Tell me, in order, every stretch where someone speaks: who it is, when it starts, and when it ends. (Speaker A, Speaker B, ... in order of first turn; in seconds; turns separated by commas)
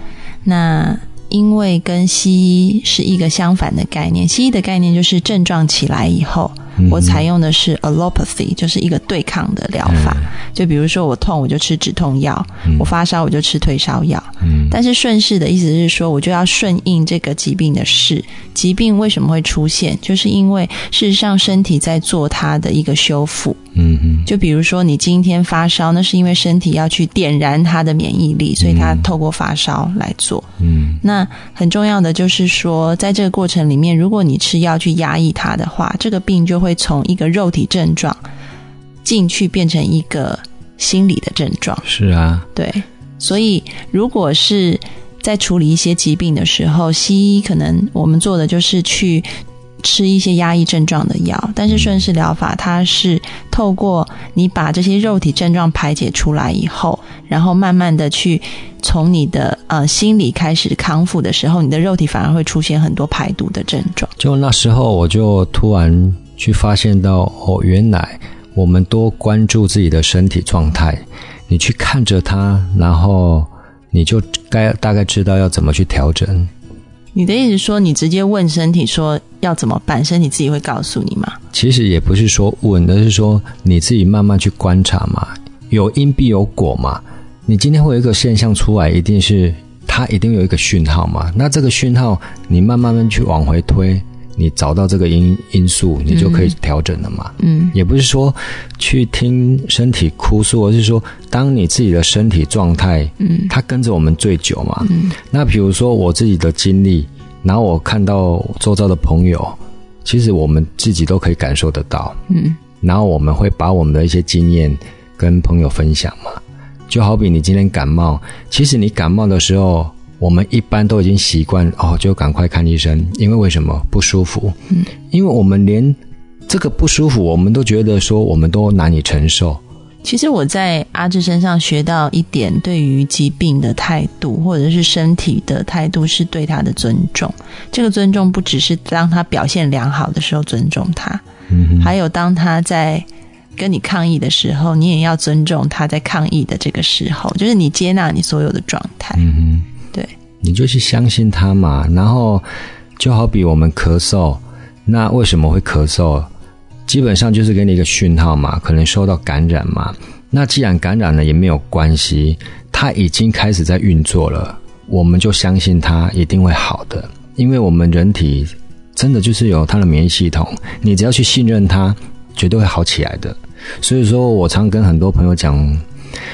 Speaker A: 0.5-23.6, Speaker B: 6.8-7.2, Speaker B: 9.9-10.3, Speaker B: 14.4-14.8, Speaker B: 23.8-24.3, Speaker A: 24.3-30.5, Speaker B: 28.6-29.1, Speaker B: 30.6-31.0, Speaker A: 31.0-38.2, Speaker A: 39.0-41.9, Speaker B: 41.9-42.5, Speaker A: 42.5-49.3, Speaker A: 49.8-64.1, Speaker B: 64.2-76.5, Speaker A: 77.2-81.4, Speaker B: 81.5-112.2, Speaker A: 96.1-96.5, Speaker A: 97.4-97.8, Speaker A: 103.2-103.5, Speaker A: 104.8-105.2, Speaker A: 112.3-112.6, Speaker B: 112.8-124.6, Speaker B: 125.1-129.6, Speaker A: 130.0-141.2, Speaker B: 141.5-141.9, Speaker A: 141.8-143.1, Speaker A: 143.6-149.2, Speaker B: 149.2-149.7, Speaker B: 150.4-152.4, Speaker B: 153.0-156.3, Speaker B: 156.9-175.8